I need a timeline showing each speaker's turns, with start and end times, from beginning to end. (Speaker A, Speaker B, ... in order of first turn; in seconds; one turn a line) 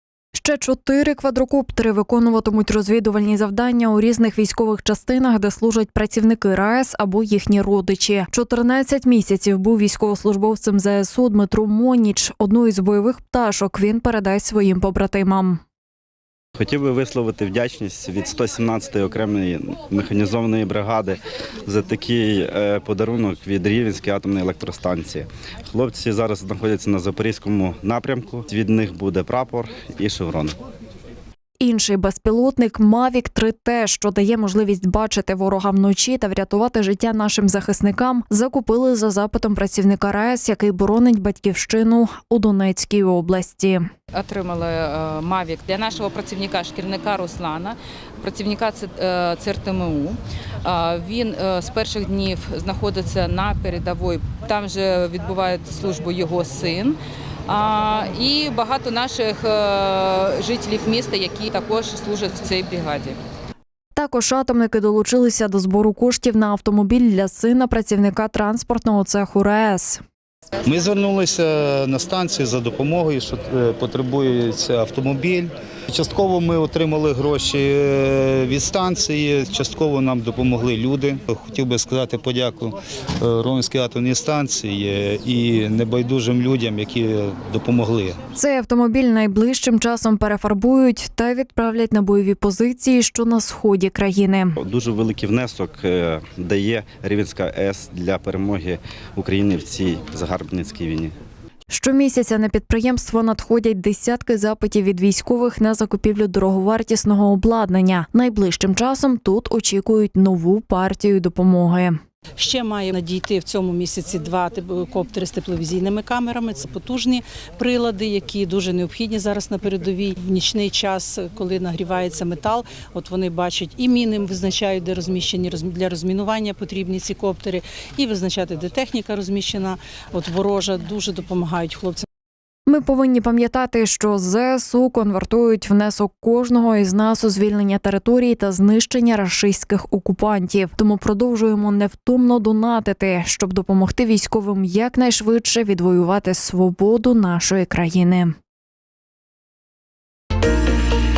Speaker A: 0.3-15.6
Speaker B: 16.6-30.6
Speaker A: 31.6-43.9
Speaker C: 44.1-63.2
Speaker A: 64.0-70.0
Speaker D: 70.7-88.2
Speaker A: 88.3-94.6
Speaker B: 94.6-101.1
Speaker A: 101.7-112.0
Speaker E: 112.4-132.1
Speaker A: 132.7-148.3